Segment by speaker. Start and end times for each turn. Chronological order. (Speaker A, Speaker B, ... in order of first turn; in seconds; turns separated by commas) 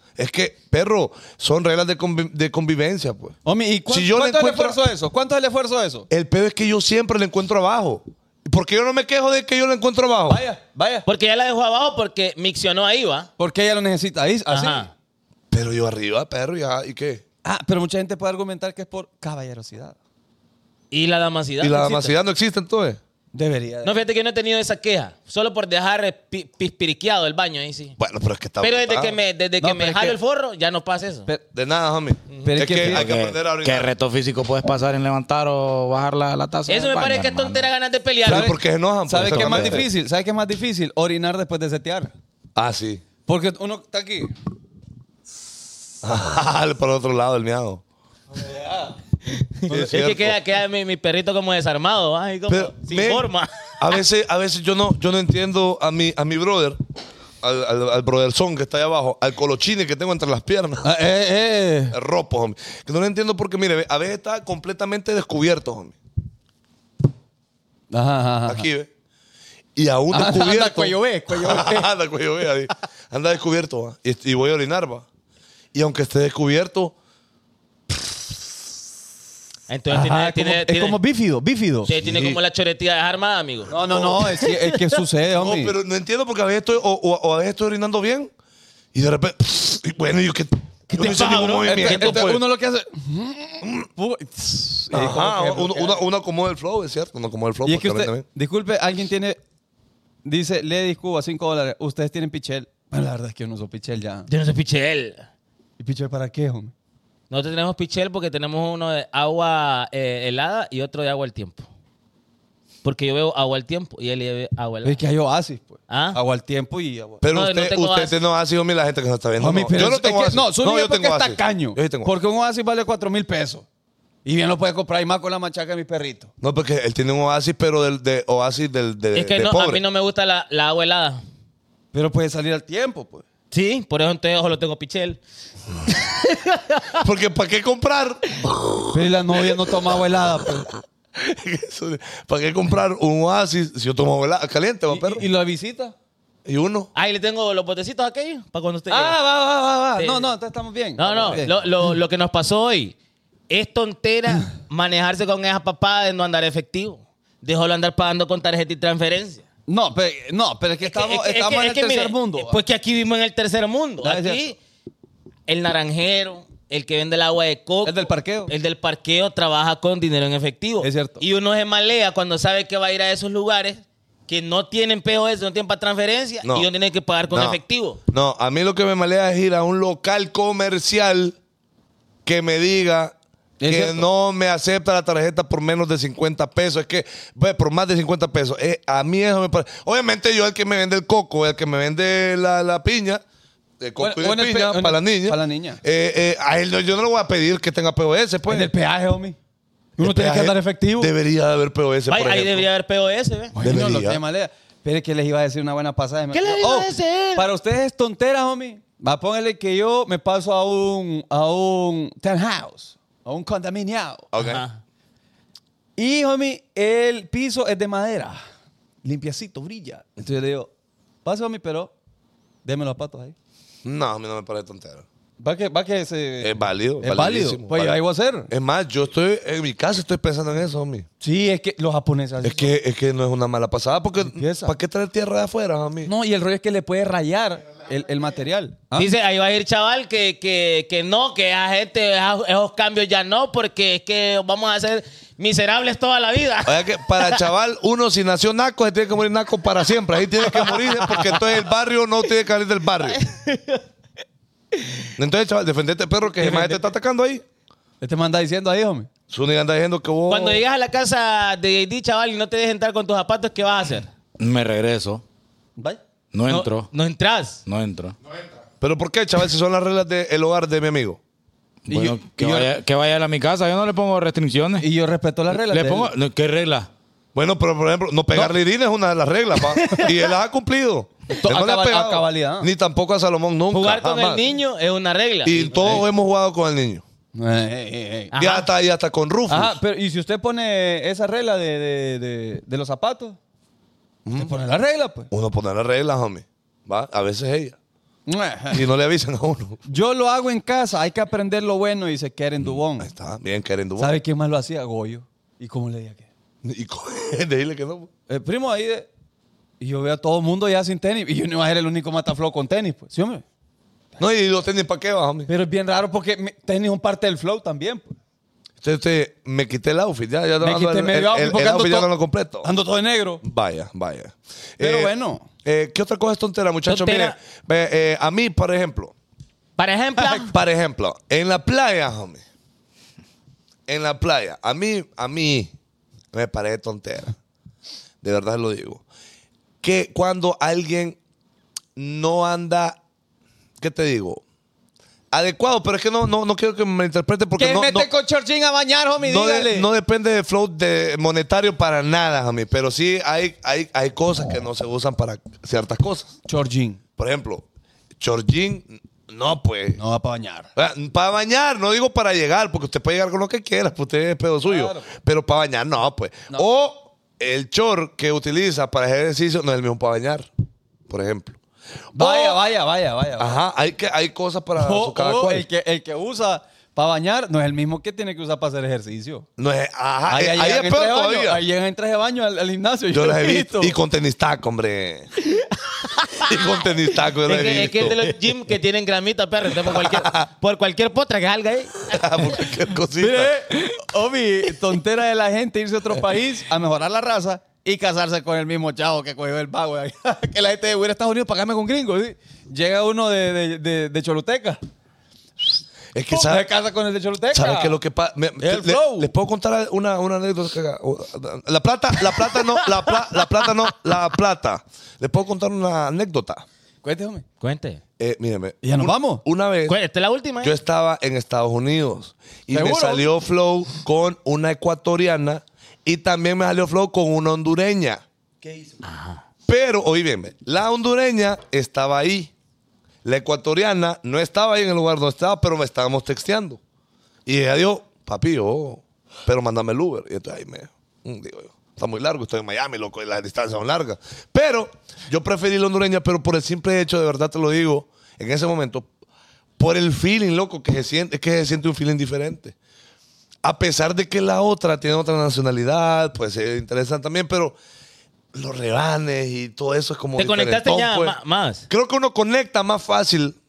Speaker A: 0.2-3.4, Speaker B: 3.5-6.1, Speaker A: 3.9-4.8, Speaker A: 6.1-10.4, Speaker B: 10.3-11.1, Speaker C: 11.1-13.3, Speaker B: 13.4-14.9, Speaker C: 14.5-14.9, Speaker A: 15.5-17.2, Speaker B: 17.4-20.0, Speaker C: 20.9-22.1, Speaker A: 21.6-23.0, Speaker B: 23.3-24.0, Speaker C: 23.8-28.0, Speaker A: 28.0-29.2, Speaker C: 28.6-31.3, Speaker B: 29.6-30.2, Speaker A: 31.5-33.9, Speaker B: 32.4-33.1, Speaker D: 32.8-37.7, Speaker C: 36.7-38.5, Speaker A: 38.2-39.9, Speaker B: 38.3-38.5, Speaker B: 39.1-42.1, Speaker D: 39.3-39.7, Speaker A: 42.6-43.0, Speaker B: 43.3-44.3, Speaker A: 46.0-47.8, Speaker B: 48.4-48.9, Speaker C: 49.6-53.8, Speaker A: 49.7-50.4, Speaker A: 52.5-53.3, Speaker A: 53.8-56.8, Speaker A: 57.4-60.9, Speaker B: 60.8-62.0, Speaker A: 61.9-66.0, Speaker B: 67.9-68.7, Speaker A: 68.5-68.9, Speaker A: 69.8-75.1, Speaker B: 70.1-71.9, Speaker A: 75.7-77.0, Speaker C: 79.7-81.0, Speaker B: 79.9-81.9, Speaker C: 81.9-83.8, Speaker A: 82.0-82.4, Speaker B: 83.7-85.8, Speaker A: 83.9-84.2, Speaker C: 84.5-84.8, Speaker A: 85.3-88.3, Speaker A: 88.9-92.4, Speaker C: 90.9-92.3, Speaker B: 91.0-96.0, Speaker A: 93.6-93.9, Speaker A: 94.9-98.2, Speaker B: 97.7-99.4, Speaker B: 100.2-104.3, Speaker C: 104.3-105.3, Speaker B: 105.8-106.7, Speaker C: 107.3-111.7, Speaker C: 112.8-115.0, Speaker B: 114.8-117.2, Speaker C: 115.9-116.2, Speaker A: 117.2-122.1, Speaker C: 117.3-118.2, Speaker B: 119.4-123.7, Speaker B: 124.2-126.3, Speaker A: 126.4-129.8, Speaker C: 129.1-131.2, Speaker B: 131.9-133.3, Speaker C: 133.5-135.2, Speaker C: 135.9-137.0, Speaker A: 136.9-139.0, Speaker B: 138.9-140.7, Speaker A: 141.2-145.2, Speaker B: 144.9-145.9, Speaker A: 146.4-146.9, Speaker C: 146.9-149.2, Speaker B: 148.9-151.6, Speaker C: 150.0-150.3, Speaker C: 151.0-153.0, Speaker C: 153.5-159.4, Speaker B: 159.7-162.6, Speaker C: 160.8-164.6, Speaker B: 164.0-164.5, Speaker C: 165.5-178.0, Speaker B: 167.8-168.5, Speaker B: 170.8-171.2, Speaker A: 177.3-181.4, Speaker A: 182.2-183.2, Speaker B: 183.6-184.1, Speaker A: 183.7-193.2, Speaker A: 193.8-198.7, Speaker B: 194.0-195.8, Speaker B: 198.5-199.4, Speaker B: 200.0-201.1, Speaker A: 200.0-202.7, Speaker C: 202.1-203.6, Speaker B: 203.5-214.3, Speaker A: 203.6-204.2, Speaker C: 206.3-207.5, Speaker A: 214.3-214.6, Speaker C: 214.3-214.8, Speaker B: 216.0-218.4, Speaker B: 219.0-220.7, Speaker B: 221.2-221.9, Speaker B: 222.7-223.3, Speaker A: 223.8-225.1, Speaker B: 225.4-228.5, Speaker A: 226.4-231.1, Speaker B: 231.2-232.7, Speaker A: 232.4-236.1, Speaker B: 234.2-234.7, Speaker B: 236.0-239.1, Speaker C: 238.9-247.4, Speaker A: 246.7-253.2, Speaker C: 253.1-253.8, Speaker C: 254.8-255.1, Speaker A: 255.2-257.4, Speaker B: 256.4-256.8, Speaker B: 258.0-259.1, Speaker A: 259.3-260.6, Speaker C: 260.3-264.1, Speaker D: 264.4-265.2, Speaker D: 266.3-266.9, Speaker C: 266.5-267.6, Speaker D: 267.7-268.2, Speaker A: 268.8-271.2, Speaker D: 271.9-274.9, Speaker B: 271.9-272.7, Speaker B: 274.8-276.1, Speaker D: 275.5-276.9, Speaker A: 277.4-284.4, Speaker B: 281.3-282.7, Speaker C: 283.7-286.0, Speaker A: 285.4-287.0, Speaker B: 287.4-288.3, Speaker C: 288.3-288.7, Speaker A: 288.4-289.8, Speaker B: 289.5-293.4, Speaker A: 294.3-294.6, Speaker B: 294.3-295.3, Speaker A: 295.3-297.8, Speaker B: 298.3-298.9, Speaker A: 298.7-299.8, Speaker B: 299.9-303.1, Speaker A: 302.6-304.2, Speaker B: 304.0-306.3, Speaker A: 306.6-308.1, Speaker B: 308.3-309.1, Speaker B: 309.8-313.4, Speaker A: 314.2-315.5, Speaker B: 315.5-318.2, Speaker A: 318.8-322.7, Speaker B: 320.6-322.1, Speaker B: 322.6-323.4, Speaker A: 323.4-325.1, Speaker B: 324.8-325.5, Speaker A: 325.6-329.1, Speaker C: 326.9-327.4, Speaker C: 329.8-330.5, Speaker B: 330.2-330.5, Speaker A: 330.5-332.4, Speaker A: 333.9-335.7, Speaker A: 336.3-337.3, Speaker A: 338.2-339.0, Speaker A: 339.8-341.2, Speaker A: 342.0-343.0, Speaker A: 343.8-344.4, Speaker A: 345.3-348.1, Speaker B: 347.6-349.9, Speaker A: 349.2-356.3, Speaker B: 356.5-357.0, Speaker A: 357.2-357.6, Speaker A: 358.2-360.0, Speaker B: 360.0-360.7, Speaker A: 360.8-370.5, Speaker B: 364.6-365.1, Speaker A: 371.1-371.6, Speaker A: 372.1-372.6, Speaker B: 372.1-373.6, Speaker A: 373.4-375.7, Speaker B: 374.8-379.5, Speaker A: 379.6-381.6, Speaker B: 380.3-384.0, Speaker A: 383.1-385.3, Speaker A: 386.4-388.2, Speaker C: 387.4-392.6, Speaker A: 389.8-390.4, Speaker A: 392.1-393.8, Speaker B: 393.2-404.8, Speaker A: 406.1-406.7, Speaker B: 406.3-408.0, Speaker A: 407.5-416.6, Speaker B: 408.6-409.3, Speaker B: 417.0-417.5, Speaker C: 417.6-418.0, Speaker A: 418.2-420.0, Speaker B: 418.8-419.4, Speaker C: 419.9-420.7, Speaker A: 420.6-428.2, Speaker B: 422.7-423.4, Speaker C: 429.0-429.4, Speaker A: 429.7-432.5, Speaker A: 433.2-436.8, Speaker A: 437.5-449.1, Speaker A: 449.8-452.8, Speaker A: 453.6-457.8, Speaker A: 458.5-461.4, Speaker C: 460.4-461.9, Speaker A: 461.9-463.6